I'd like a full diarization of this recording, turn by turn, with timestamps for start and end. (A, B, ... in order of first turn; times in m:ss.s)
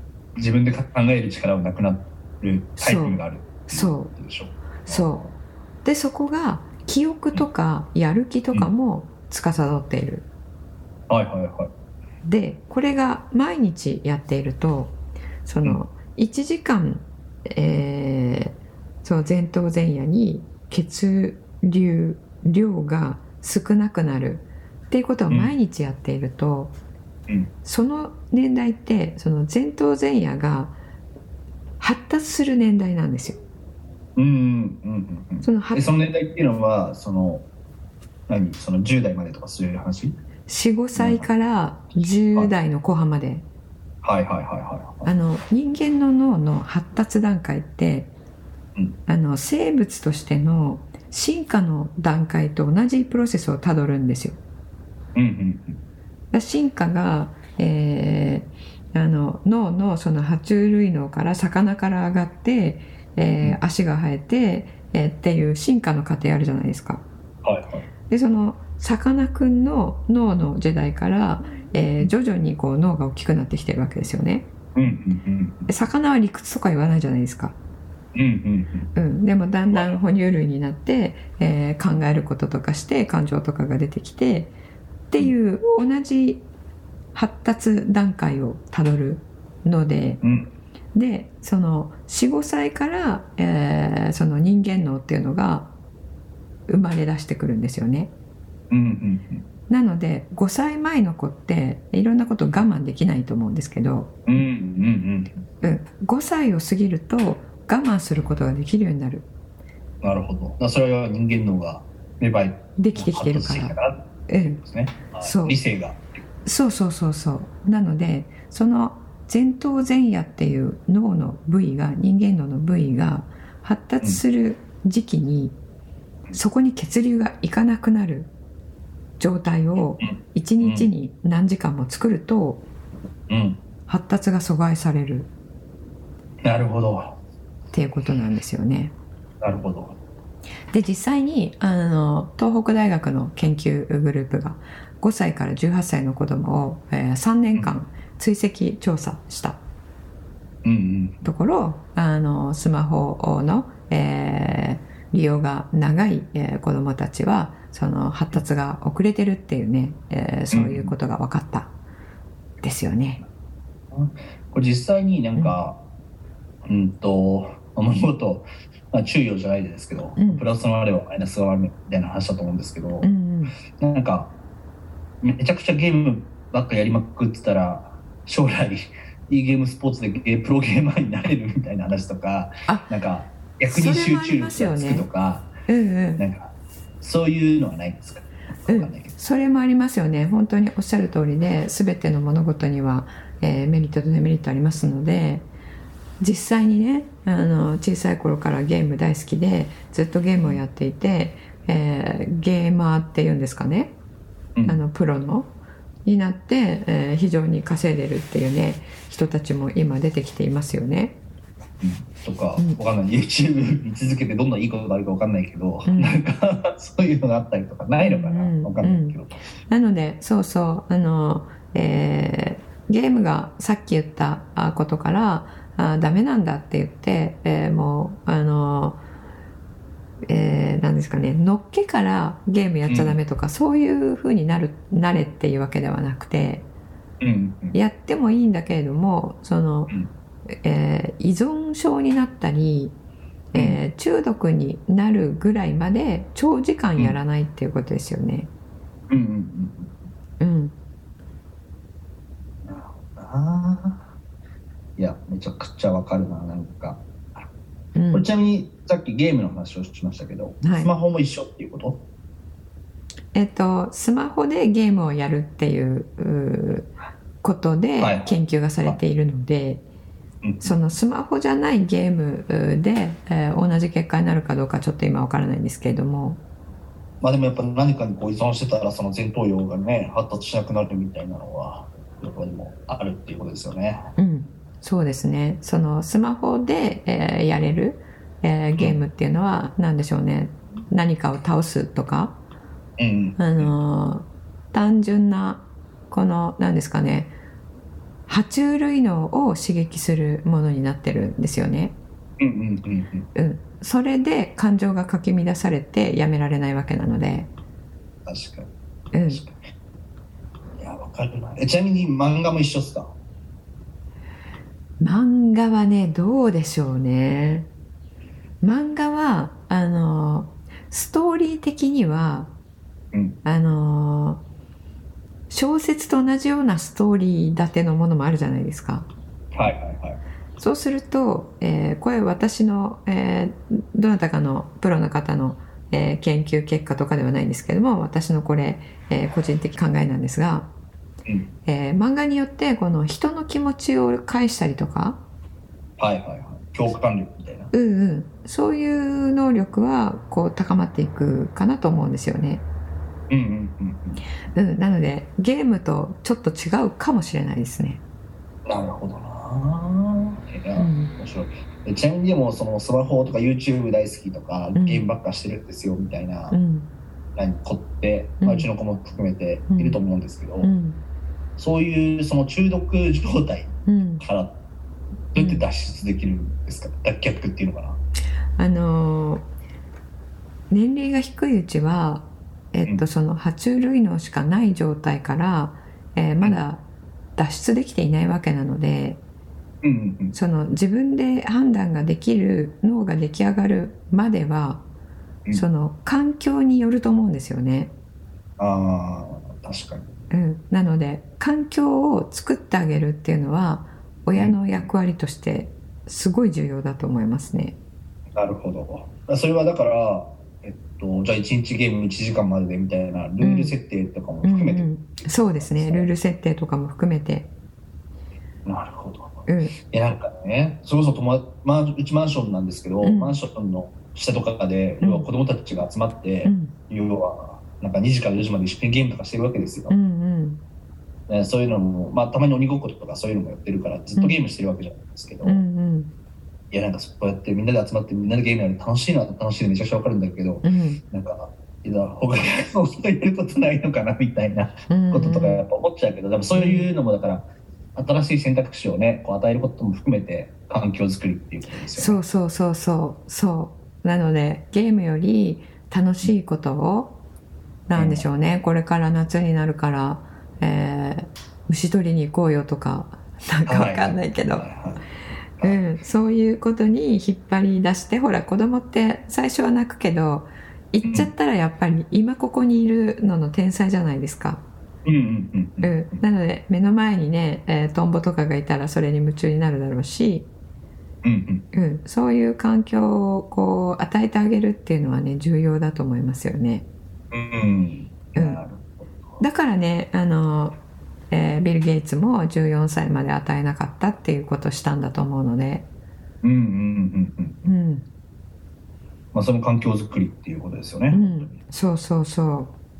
0:00.4-0:05.3 A
0:02.8-0:04.1 B
0:04.9-0:05.2 B
0:05.8-0:10.2 B
0:11.1-0:11.7 A
0:12.2-0:26.7 B
0:27.6-0:30.8 B
0:31.8-0:33.4 B
0:34.2-0:37.4 A
0:35.4-0:35.9 B
0:38.3-0:40.2 A
0:40.5-0:43.4 B
0:41.0-0:41.3 A
0:44.0-0:45.1 A
0:45.0-0:48.1 B
0:49.0-0:54.4 B
0:55.1-0:55.8 A
0:56.3-1:07.0 B
1:07.4-1:07.8 A
1:08.1-1:14.5 B
1:14.7-1:15.7 A
1:15.7-1:17.6 B
1:18.1-1:18.9 A
1:18.9-1:24.5 B
1:19.7-1:20.0 A
1:25.1-1:26.4 B
1:27.1-1:30.2 B
1:30.2-1:30.5 A
1:30.9-1:35.7 B
1:36.7-1:38.1 B
1:38.7-1:39.4 A
1:39.7-1:44.1 B
1:44.3-1:45.3 A
1:45.6-1:49.2 B
1:50.0-1:56.0 A
1:52.8-1:53.8 B
1:54.3-1:54.6 B
1:55.1-1:55.6 B
1:56.4-2:05.6 B
2:06.3-2:08.3 B
2:09.2-2:12.6 B
2:10.0-2:10.9 A
2:13.3-2:13.6 A
2:13.9-2:15.3 B
2:16.4-2:17.2 A
2:17.7-2:18.9 B
2:19.4-2:20.0 A
2:20.7-2:29.6 B
2:30.6-2:31.3 A
2:31.2-2:41.7 B
2:40.5-2:41.0 A
2:42.6-2:43.2 B
2:43.9-2:45.8 A
2:46.6-2:53.1 A
2:50.2-2:50.5 B
2:53.0-2:53.5 B
2:53.8-2:54.3 A
2:55.2-3:05.5 A
3:03.6-3:05.1 B
3:05.7-3:06.2 B
3:06.2-3:06.5 A
3:07.0-3:09.1 A
3:08.7-3:15.5 B
3:16.2-3:24.0 B
3:24.6-3:24.8 A
3:24.6-3:25.5 B
3:26.0-3:31.2 B
3:31.8-3:39.4 A
3:35.8-3:36.2 B
3:38.0-3:39.2 B
3:39.7-3:49.0 B
3:50.2-3:56.6 B
3:52.9-3:53.2 A
3:57.2-3:57.8 A
3:57.7-3:59.9 B
4:00.5-4:02.9 B
4:03.5-4:08.5 B
4:03.5-4:03.8 A
4:09.1-4:09.9 A
4:10.4-4:10.8 B
4:12.6-4:14.0 A
4:15.0-4:17.0 A
4:17.9-4:18.3 B
4:18.1-4:22.0 A
4:20.6-4:20.9 B
4:23.3-4:29.8 B
4:28.0-4:29.0 A
4:30.4-4:30.8 A
4:30.6-4:36.4 B
4:37.2-4:44.0 A
4:44.2-4:52.4 B
4:53.0-4:53.7 A
4:53.4-4:57.3 B
4:58.3-5:02.0 B
5:02.4-5:03.3 A
5:03.3-5:07.5 B
5:08.2-5:08.7 A
5:09.1-5:09.4 B
5:09.3-5:09.6 A
5:10.8-5:13.1 A
5:15.0-5:17.7 B
5:18.6-5:22.5 B
5:23.4-5:24.4 B
5:25.5-5:29.1 B
5:29.5-5:30.2 A
5:30.6-5:40.7 B
5:41.6-5:45.2 B
5:46.0-5:47.7 A
5:47.7-5:52.6 B
5:53.3-5:54.2 A
5:54.5-5:58.0 B
5:58.6-6:06.6 A
6:00.8-6:01.1 B
6:04.7-6:05.1 B
6:06.5-6:06.9 B
6:07.4-6:10.7 A
6:08.4-6:08.7 B
6:09.7-6:10.0 B
6:10.6-6:11.0 B
6:11.6-6:14.5 A
6:13.8-6:14.2 B
6:15.3-6:18.0 A
6:15.4-6:15.6 B
6:18.6-6:19.5 B
6:20.7-6:26.8 B
6:27.4-6:29.2 B
6:29.8-6:30.3 A
6:30.3-6:34.8 B
6:35.5-6:37.9 B
6:38.6-6:40.1 A
6:40.3-6:47.7 B
6:44.3-6:44.9 A
6:48.3-6:56.1 A
6:53.4-6:53.8 B
6:54.4-6:57.5 B
6:58.6-7:09.9 A
6:59.5-6:59.8 B
7:03.0-7:03.4 B
7:05.0-7:05.3 B
7:06.4-7:06.7 B
7:09.9-7:10.6 B
7:11.3-7:15.6 A
7:15.4-7:16.1 B
7:16.7-7:32.2 A
7:20.6-7:21.0 B
7:24.9-7:25.6 B
7:26.5-7:26.9 B
7:31.9-7:37.2 B
7:37.9-7:44.6 B
7:37.9-7:38.2 A
7:43.7-7:45.0 A
7:45.6-7:54.6 B
7:51.0-7:51.3 A
7:55.0-7:56.2 A
7:55.8-8:00.5 B
8:01.2-8:01.6 A
8:01.7-8:06.8 B
8:07.3-8:09.4 A
8:08.4-8:08.6 B
8:09.4-8:10.8 B
8:11.3-8:15.8 B
8:16.4-8:17.7 A
8:17.6-8:18.0 B
8:19.3-8:21.5 A
8:21.1-8:22.7 B